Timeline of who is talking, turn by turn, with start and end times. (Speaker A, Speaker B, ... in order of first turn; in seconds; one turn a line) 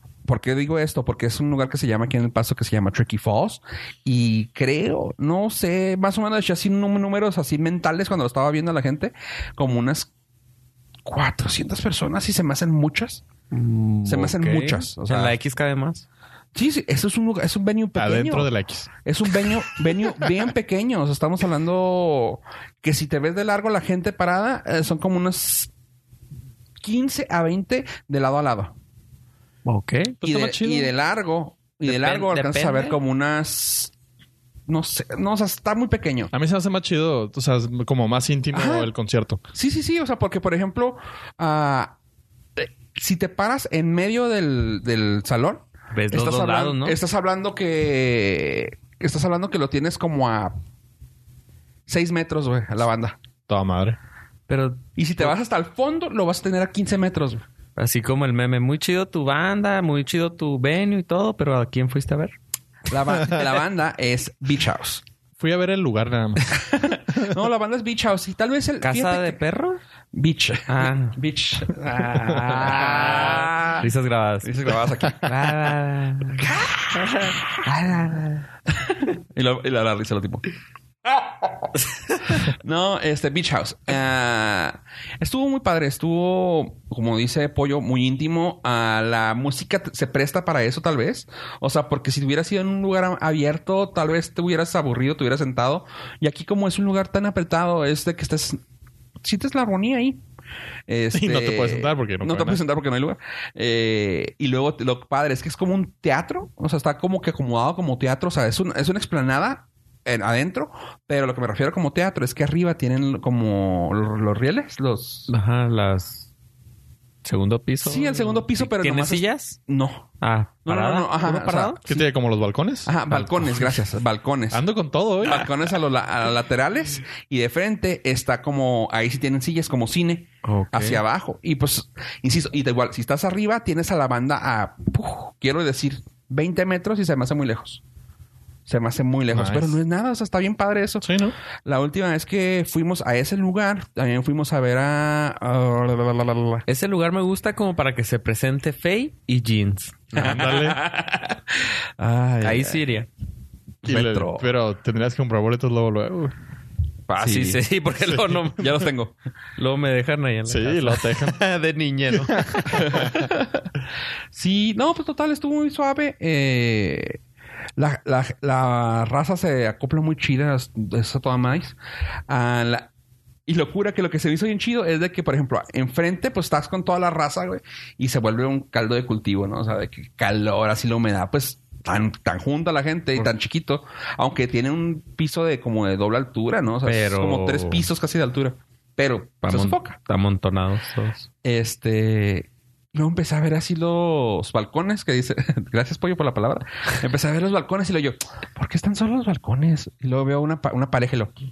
Speaker A: 0.2-10.1
Speaker A: 11.0-13.2
Speaker B: 13.5-16.1
Speaker A: 14.1-15.3
Speaker A: 16.5-18.5
Speaker C: 17.9-19.5
Speaker A: 19.0-25.7
Speaker A: 26.8-28.7
Speaker B: 29.6-30.2
Speaker C: 30.2-30.9
Speaker A: 30.2-33.9
Speaker B: 31.8-33.0
Speaker A: 34.7-36.3
Speaker C: 36.3-39.4
Speaker A: 38.5-38.9
Speaker A: 39.5-41.9
Speaker A: 42.6-50.6
Speaker B: 45.9-47.0
Speaker A: 51.9-53.2
Speaker C: 53.5-54.0
Speaker B: 54.5-55.3
Speaker A: 55.0-57.4
Speaker B: 57.8-62.3
Speaker A: 62.9-65.0
Speaker C: 65.4-66.6
Speaker A: 66.5-69.4
Speaker B: 68.8-69.8
Speaker A: 70.1-73.9
Speaker B: 70.7-71.2
Speaker B: 72.5-74.5
Speaker A: 74.4-75.3
Speaker B: 75.2-76.5
Speaker A: 76.4-77.4
Speaker B: 77.2-78.4
Speaker A: 78.8-80.5
Speaker A: 82.3-98.6
Speaker A: 99.2-100.2
Speaker A: 100.9-115.3
Speaker C: 101.1-102.6
Speaker B: 115.3-116.3
Speaker B: 117.2-119.6
Speaker A: 117.8-120.1
Speaker B: 120.2-121.8
Speaker A: 120.7-121.9
Speaker C: 121.8-123.7
Speaker A: 122.8-124.6
Speaker C: 124.5-125.5
Speaker A: 125.2-137.8
Speaker B: 130.4-131.0
Speaker A: 138.7-141.1
Speaker C: 139.3-139.8
Speaker C: 141.0-141.3
Speaker A: 141.6-146.6
Speaker B: 146.7-150.5
Speaker C: 150.2-150.8
Speaker A: 150.2-151.4
Speaker A: 152.0-152.8
Speaker B: 152.4-153.1
Speaker C: 153.8-156.3
Speaker B: 153.8-154.3
Speaker A: 157.1-157.6
Speaker B: 157.1-158.7
Speaker C: 158.1-158.4
Speaker A: 158.6-159.1
Speaker B: 159.6-163.1
Speaker C: 160.5-161.4
Speaker C: 162.1-163.3
Speaker A: 162.7-163.7
Speaker A: 164.3-167.2
Speaker A: 167.8-171.8
Speaker A: 172.3-172.9
Speaker A: 173.5-190.0
Speaker B: 186.8-187.8
Speaker B: 189.4-191.3
Speaker A: 191.4-201.3